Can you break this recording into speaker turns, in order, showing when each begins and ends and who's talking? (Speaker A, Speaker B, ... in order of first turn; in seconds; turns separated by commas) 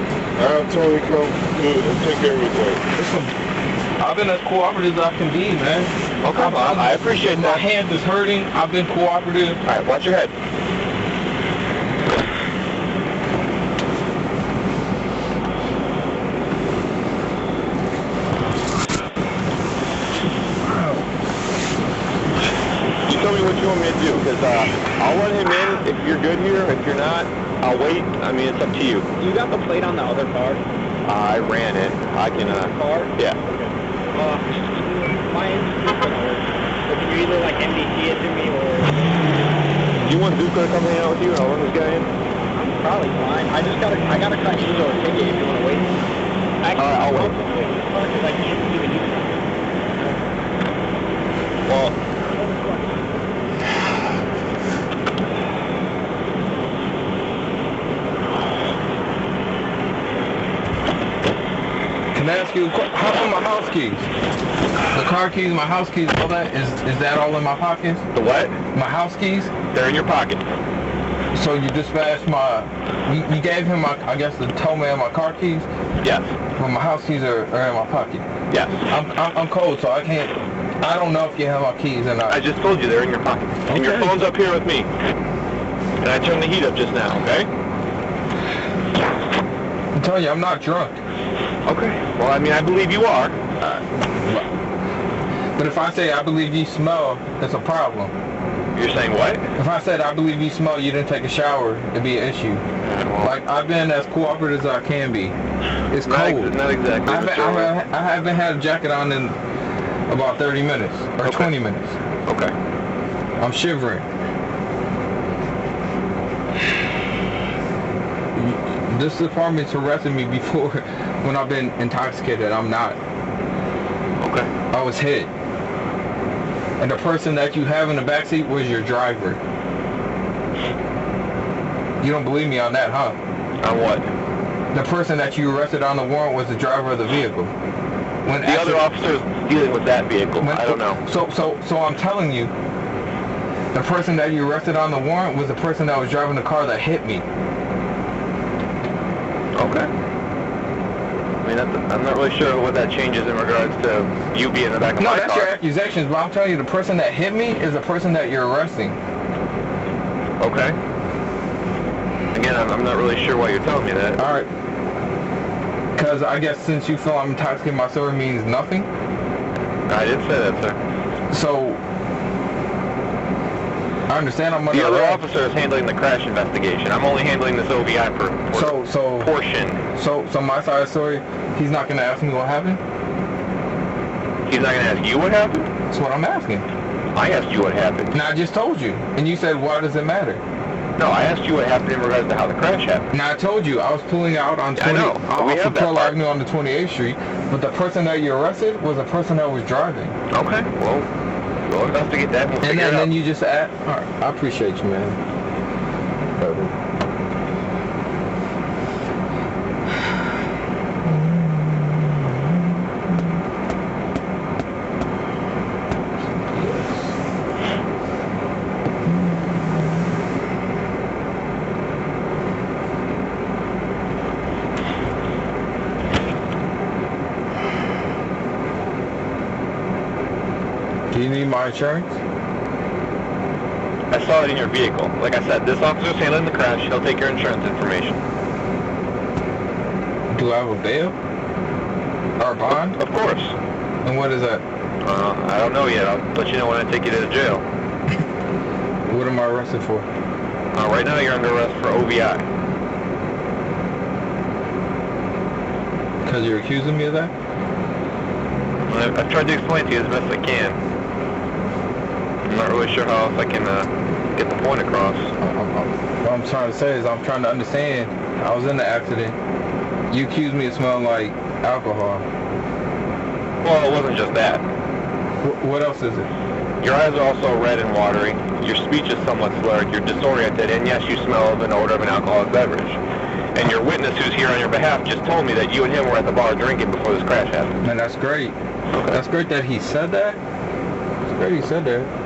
Speaker A: 0.4-2.8, Speaker B: 2.9-3.3, Speaker B: 4.0-9.6, Speaker C: 6.2-7.7, Speaker C: 9.6-10.3, Speaker B: 20.7-21.1, Speaker C: 23.1-29.1, Speaker D: 29.2-30.6, Speaker C: 31.1-33.4, Speaker D: 32.6-39.2, Speaker C: 40.0-42.1, Speaker D: 42.5-45.9, Speaker D: 46.6-49.4, Speaker C: 46.7-47.4, Speaker C: 51.7-52.0, Speaker D: 52.2-52.9, Speaker B: 62.1-64.1, Speaker B: 64.9-68.0, Speaker C: 68.1-68.5, Speaker B: 68.7-69.5, Speaker C: 69.7-70.4, Speaker B: 71.3-75.7, Speaker C: 76.0-76.3, Speaker B: 76.6-78.3, Speaker C: 78.5-78.8, Speaker B: 78.9-82.4, Speaker C: 82.3-84.9, Speaker B: 83.7-84.3, Speaker C: 86.0-87.5, Speaker B: 90.0-91.0, Speaker C: 91.7-93.8, Speaker B: 95.6-98.1, Speaker C: 98.8-99.5, Speaker B: 99.6-102.6, Speaker C: 102.8-103.3, Speaker B: 103.2-105.3, Speaker B: 105.9-109.4, Speaker C: 106.0-107.7, Speaker B: 110.1-112.0, Speaker C: 111.2-111.5, Speaker C: 112.3-112.5, Speaker B: 113.4-114.1, Speaker B: 118.3-123.0, Speaker C: 124.2-124.5, Speaker B: 124.7-125.3, Speaker B: 126.8-129.4, Speaker B: 132.0-133.2, Speaker C: 133.6-134.1, Speaker B: 134.7-137.5, Speaker B: 138.2-138.9, Speaker C: 138.4-141.0, Speaker B: 140.4-142.5, Speaker B: 143.7-147.3, Speaker C: 149.6-149.9, Speaker C: 151.4-155.5, Speaker B: 155.0-159.0, Speaker C: 160.4-160.8, Speaker C: 162.3-164.2, Speaker B: 164.2-164.5, Speaker B: 166.0-168.9, Speaker C: 169.9-170.8, Speaker B: 171.3-171.8, Speaker B: 174.1-175.2, Speaker C: 174.7-179.8, Speaker B: 178.5-179.3, Speaker B: 179.9-182.8, Speaker C: 184.5-185.7, Speaker B: 185.9-186.7, Speaker C: 187.2-188.2, Speaker B: 188.1-190.4, Speaker C: 191.0-193.1, Speaker B: 193.1-200.2, Speaker C: 194.8-196.2, Speaker C: 200.3-201.1, Speaker C: 201.7-203.1, Speaker B: 202.6-205.2, Speaker B: 206.4-206.7, Speaker B: 211.1-212.6, Speaker B: 216.2-217.2, Speaker B: 219.1-220.0, Speaker B: 231.1-232.2, Speaker C: 234.1-238.2, Speaker B: 240.3-241.2, Speaker B: 242.4-243.0, Speaker C: 243.0-243.5, Speaker B: 244.1-244.6, Speaker C: 245.0-247.6, Speaker B: 249.1-250.1, Speaker C: 250.8-252.4, Speaker B: 256.2-257.3, Speaker C: 258.9-260.8, Speaker C: 262.4-265.2, Speaker B: 265.4-269.4, Speaker B: 270.1-272.2, Speaker C: 273.6-274.6, Speaker B: 275.4-276.3, Speaker C: 276.8-283.0, Speaker C: 283.5-287.7, Speaker B: 287.8-288.6, Speaker C: 288.9-289.2, Speaker B: 289.1-290.4, Speaker B: 291.3-292.1